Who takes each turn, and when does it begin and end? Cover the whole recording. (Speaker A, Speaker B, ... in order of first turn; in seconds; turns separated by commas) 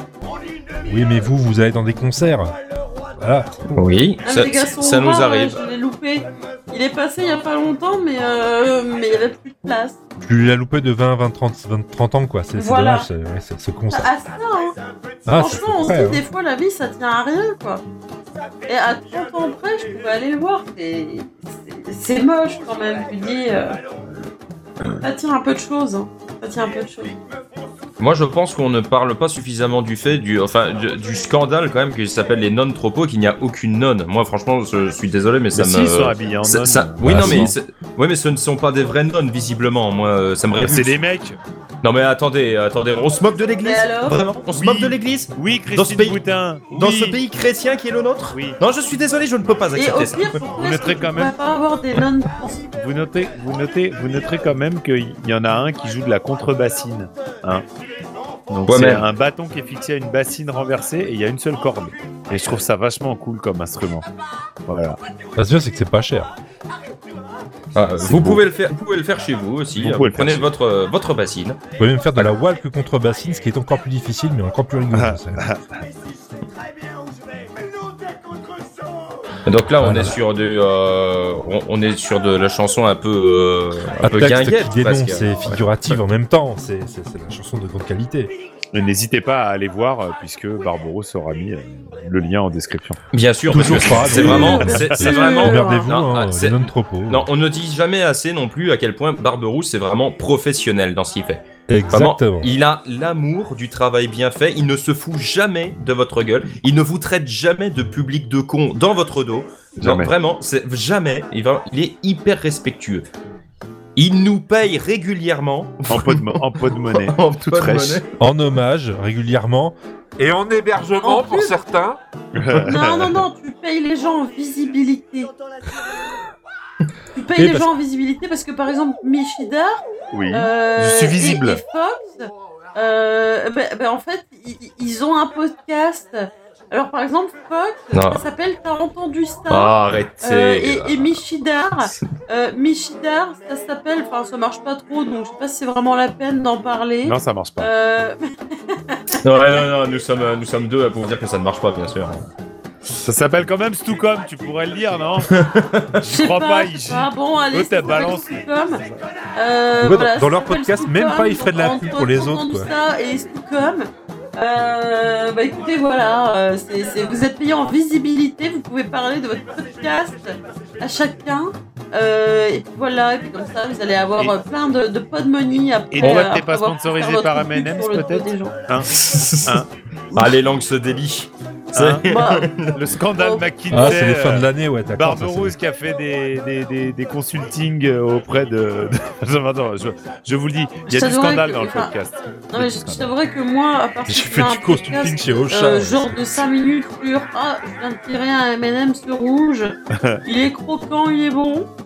Speaker A: 0.8-2.5, Speaker A: 3.1-3.8, Speaker B: 3.8-5.6, Speaker C: 4.2-10.0, Speaker A: 10.2-14.1, Speaker C: 12.6-13.1, Speaker C: 13.9-14.8, Speaker A: 15.3-16.2, Speaker C: 15.3-17.8, Speaker C: 18.7-23.8, Speaker C: 24.9-27.2, Speaker B: 28.0-41.0, Speaker D: 35.5-37.5, Speaker A: 37.0-37.5, Speaker D: 40.6-41.4, Speaker B: 41.8-50.4, Speaker C: 43.6-44.2, Speaker D: 44.5-47.2, Speaker D: 48.3-48.6, Speaker C: 49.7-52.6, Speaker D: 50.5-51.4, Speaker D: 52.7-57.7, Speaker D: 58.5-64.1, Speaker B: 58.7-59.1, Speaker D: 64.7-65.0, Speaker A: 65.4-66.3, Speaker B: 67.7-71.6, Speaker D: 68.1-68.3, Speaker D: 69.8-70.5, Speaker A: 71.8-75.5, Speaker D: 74.9-75.8, Speaker B: 79.5-86.0, Speaker A: 79.8-80.2, Speaker A: 84.0-88.3, Speaker D: 88.7-93.0, Speaker B: 93.1-113.1, Speaker A: 93.5-97.3, Speaker D: 93.7-94.8, Speaker C: 94.0-95.9, Speaker A: 101.7-102.5, Speaker D: 109.8-110.1, Speaker B: 114.0-118.2, Speaker D: 115.9-118.0, Speaker A: 118.2-122.0, Speaker C: 121.0-121.6, Speaker D: 122.4-123.0, Speaker A: 122.5-122.8, Speaker C: 122.7-125.3, Speaker C: 127.1-149.2, Speaker A: 127.4-127.7, Speaker D: 130.1-131.6, Speaker B: 137.9-138.2, Speaker B: 139.5-141.2, Speaker B: 141.8-142.1, Speaker D: 147.0-147.7, Speaker B: 149.1-152.3, Speaker D: 153.0-155.3, Speaker B: 155.2-155.9, Speaker D: 156.0-159.0, Speaker C: 156.1-158.8, Speaker C: 159.3-178.6, Speaker A: 159.8-162.7, Speaker D: 175.9-179.7, Speaker B: 178.9-182.7, Speaker D: 181.8-182.1, Speaker C: 182.1-182.5, Speaker D: 182.7-193.2, Speaker C: 183.1-184.1, Speaker A: 183.7-185.6, Speaker C: 190.9-191.9, Speaker C: 192.5-201.7, Speaker A: 194.1-196.4